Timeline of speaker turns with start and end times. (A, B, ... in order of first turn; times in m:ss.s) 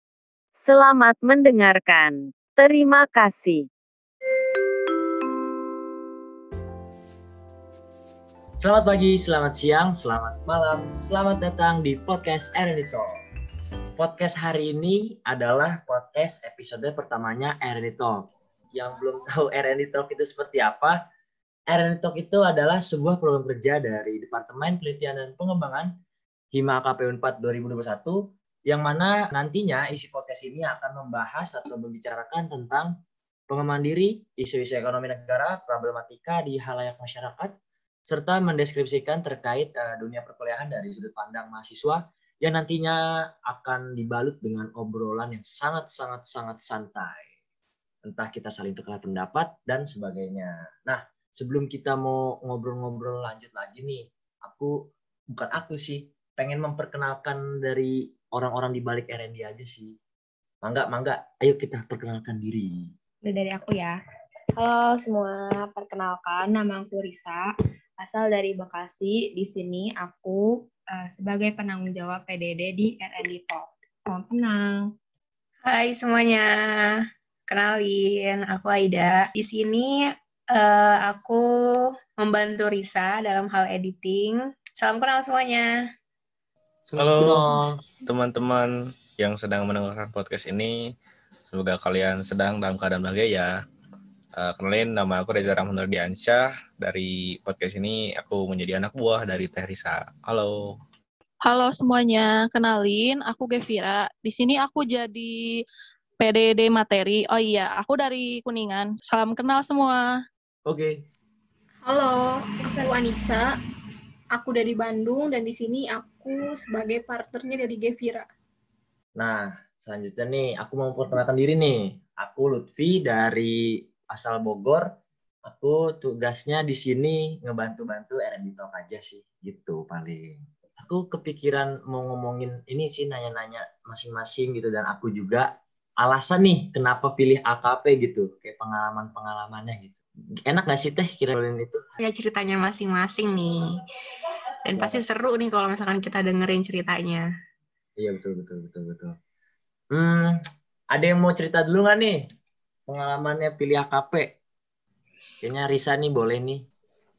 0:00.6-0:03.7 A
0:08.6-0:13.2 B
0:14.0-0:21.0 B
0:21.7-0:25.9 B
0:26.5-0:32.9 B
0:33.5-0:37.5 B
0:38.1-0:47.3 B
0:48.0-1:00.0 B
1:00.6-1:02.9 B
1:03.2-1:03.9 C
1:04.6-1:07.4 C
1:08.0-1:14.8 C
1:15.6-1:16.5 D
1:17.5-1:21.4 D
1:22.2-1:25.7 D
1:26.8-1:27.8 B
1:27.0-1:27.4 E
1:28.0-1:30.9 E
1:31.5-1:33.5 E
1:34.4-1:40.6 E
1:41.4-1:45.3 F
1:46.2-1:50.1 F
1:50.7-1:51.0 B
1:51.8-1:53.4 G
1:54.3-1:58.3 G
1:59.2-2:04.9 B
2:05.4-2:15.5 B
2:16.0-2:21.8 B
2:22.0-2:23.6 D
2:24.6-2:27.2 D
2:24.7-2:25.0 B
2:28.0-2:29.1 B
2:29.9-2:30.4 B
2:30.9-2:32.2 B
2:32.9-2:34.3 B
2:35.4-2:36.6 B